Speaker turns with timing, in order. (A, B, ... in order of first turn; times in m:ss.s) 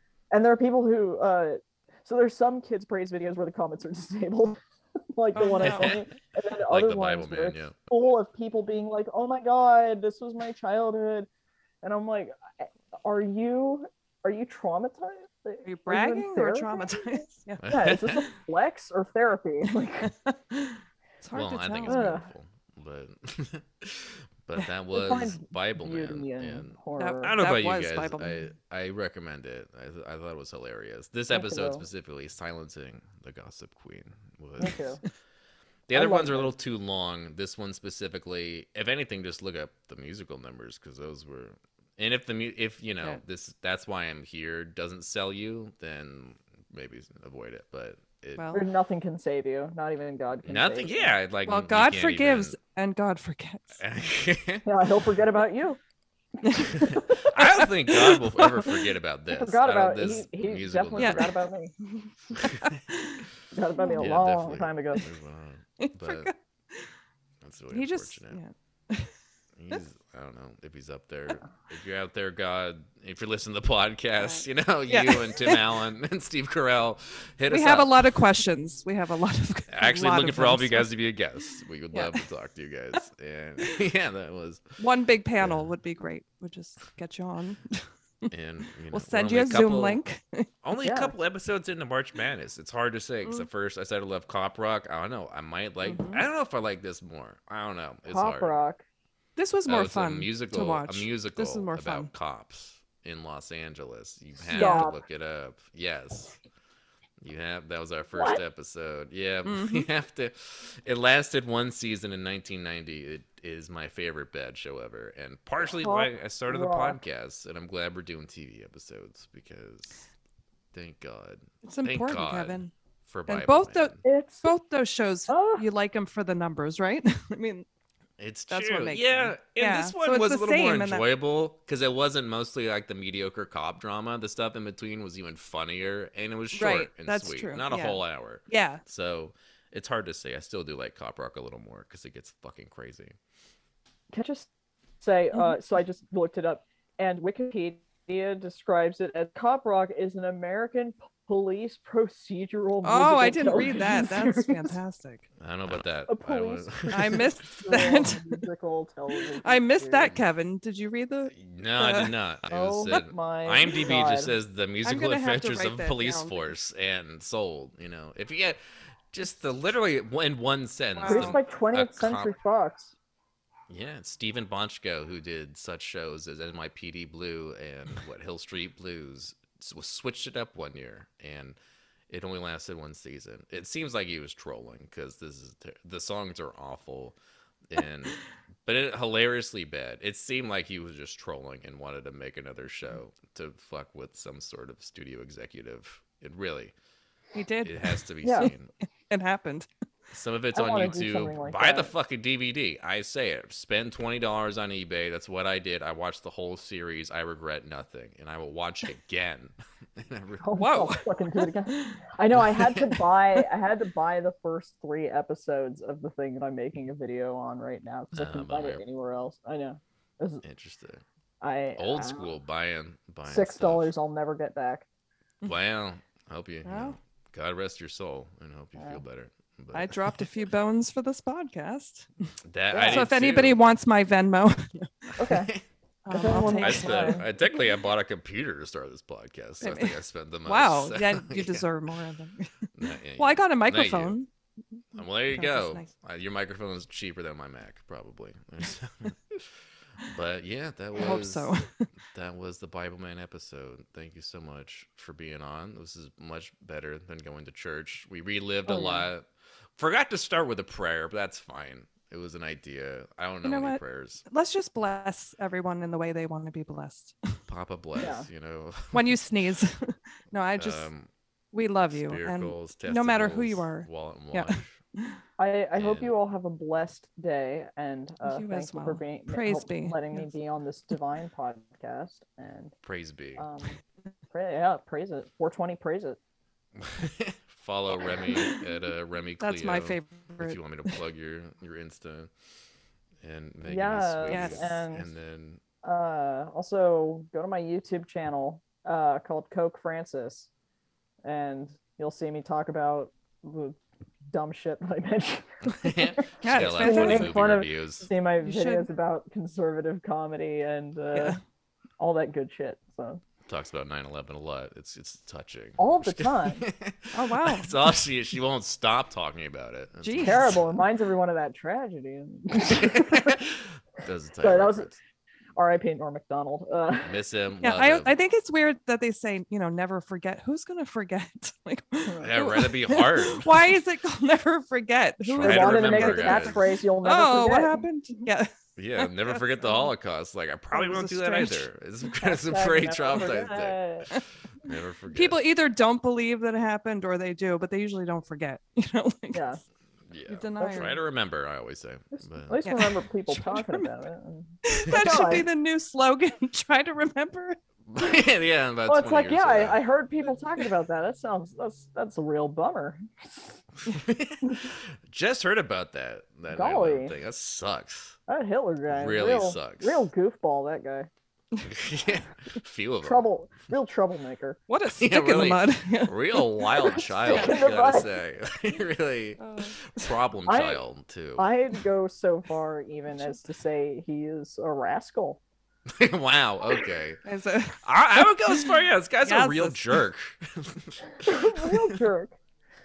0:00.3-0:04.6 A
0:05.1-0:11.3 A
0:05.3-0:06.0 B
0:05.6-0:06.0 C
0:06.7-0:07.7 C
0:11.8-0:20.1 A
0:15.6-0:17.6 B
0:17.6-0:18.2 C
0:20.0-0:22.1 B
0:21.3-0:35.0 C
0:21.9-0:22.2 A
0:24.9-0:27.4 A
0:27.0-0:28.5 B
0:31.3-0:31.8 A
0:34.6-0:35.0 A
0:35.9-0:48.5 C
0:35.9-0:36.5 A
0:48.4-0:48.6 B
0:48.5-0:51.2 A
0:50.4-0:52.6 C
0:51.4-0:53.8 B
0:53.8-0:54.6 C
0:54.6-0:55.8 A
0:56.4-0:56.7 B
0:56.5-0:57.3 A
0:56.8-1:01.4 C
0:57.3-0:58.7 B
0:59.3-1:01.7 A
1:01.0-1:03.2 B
1:02.4-1:02.7 C
1:03.5-1:05.0 A
1:03.8-1:04.1 B
1:04.0-1:06.3 C
1:05.8-1:06.9 B
1:07.4-1:08.4 C
1:07.7-1:09.1 B
1:09.6-1:18.2 C
1:14.2-1:15.7 B
1:17.5-1:20.9 B
1:19.7-1:24.6 C
1:21.9-1:22.2 B
1:24.8-1:28.3 B
1:25.4-1:25.7 C
1:28.3-1:30.0 C
1:28.9-1:30.5 B
1:30.6-1:38.5 C
1:30.8-1:31.1 A
1:35.8-1:36.2 B
1:38.1-1:38.8 A
1:39.4-1:42.1 B
1:39.6-1:46.4 C
1:44.5-1:44.9 B
1:44.5-1:45.0 A
1:47.2-2:00.1 C
1:49.4-1:49.9 B
1:55.6-1:57.0 A
2:00.7-2:04.0 C
2:01.6-2:02.7 B
2:03.3-2:07.6 B
2:04.0-2:04.5 A
2:05.3-2:05.6 A
2:08.2-2:23.2 C
2:08.5-2:11.0 B
2:16.5-2:18.8 B
2:24.1-2:24.5 A
2:25.0-2:34.8 A
2:32.8-2:35.3 B
2:35.4-2:37.4 C
2:36.1-2:40.2 A
2:36.9-2:38.4 B
2:39.4-2:42.1 B
2:41.3-2:48.6 C
2:42.5-2:44.3 A
2:44.8-2:46.6 B
2:49.1-2:52.3 C
2:50.9-2:51.4 B
2:51.1-2:52.9 A
2:53.7-3:01.6 C
3:02.1-3:07.2 C
3:07.7-3:16.7 C
3:17.3-3:18.5 B
3:17.6-3:18.7 C
3:18.2-3:18.5 A
3:19.1-3:19.7 B
3:20.1-3:30.5 C
3:20.5-3:21.9 A
3:30.4-3:40.4 A
3:30.6-3:32.0 B
3:32.4-3:33.0 C
3:38.1-3:38.8 C
3:40.4-3:41.0 C
3:41.4-3:42.3 A
3:41.8-3:43.9 C
3:43.2-3:44.8 A
3:45.4-3:50.3 C
3:46.6-3:47.0 B
3:48.8-3:49.0 A
3:49.7-3:52.1 B
3:52.4-3:53.6 C
3:52.7-3:53.1 A
3:52.9-3:55.1 B
3:55.2-3:55.5 A
3:55.2-3:55.6 C
3:56.0-3:57.3 B
3:56.1-3:57.2 A
3:56.6-4:01.6 C
3:59.6-4:02.5 B
4:02.7-4:04.2 C
4:03.2-4:04.3 B
4:04.8-4:05.9 B
4:04.9-4:11.5 C
4:10.9-4:11.8 B
4:12.1-4:19.2 C
4:18.7-4:19.0 A
4:19.8-4:24.2 C
4:23.4-4:27.4 B
4:27.5-4:29.2 C
4:28.0-4:28.3 A
4:28.9-4:30.9 B
4:30.6-4:31.1 C
4:31.5-4:35.2 B
4:31.9-4:34.8 C
4:35.4-4:42.7 A
4:35.7-4:36.1 C
4:38.2-4:40.3 B
4:42.8-4:43.4 C
4:43.4-4:46.2 A
4:46.8-4:52.3 C
4:48.2-4:48.6 B
4:49.4-4:50.9 B
4:53.2-4:55.6 C
4:53.7-4:55.1 A
4:54.3-4:54.6 B
4:55.8-5:00.5 A
5:01.2-5:03.8 A
5:04.3-5:11.4 A
5:05.6-5:08.1 C
5:06.4-5:07.4 B
5:08.4-5:08.9 B
5:12.0-5:13.2 A
5:13.4-5:20.8 C
5:15.8-5:16.6 A
5:17.1-5:17.7 B
5:20.0-5:20.6 B
5:20.2-5:23.4 A
5:22.6-5:25.0 C
5:24.4-5:24.9 A
5:25.5-5:27.1 A
5:27.0-5:28.1 C
5:27.6-5:39.9 B
5:32.2-5:33.8 C
5:35.2-5:37.9 A
5:35.4-5:36.6 C
5:38.8-5:45.4 C
5:40.7-5:41.7 B
5:42.2-5:44.1 A
5:45.1-5:49.5 B
5:49.3-5:49.6 A
5:50.1-5:52.6 C
5:50.3-5:51.0 B
5:50.6-5:50.9 A
5:52.1-5:55.5 A
5:52.6-5:53.9 B
5:54.6-5:57.6 B
5:57.9-5:59.8 C
5:58.9-6:03.6 A
6:03.8-6:08.2 C
6:06.5-6:07.1 A
6:08.3-6:11.1 A
6:08.9-6:10.1 C
6:11.6-6:13.2 C
6:13.0-6:14.6 A
6:14.7-6:17.6 B
6:14.9-6:21.4 C
6:17.0-6:18.1 A
6:19.4-6:19.9 B
6:20.5-6:20.8 A
6:21.4-6:25.4 A
6:25.9-6:27.2 C
6:27.2-6:29.9 B
6:27.8-6:31.8 C
6:31.2-6:32.4 A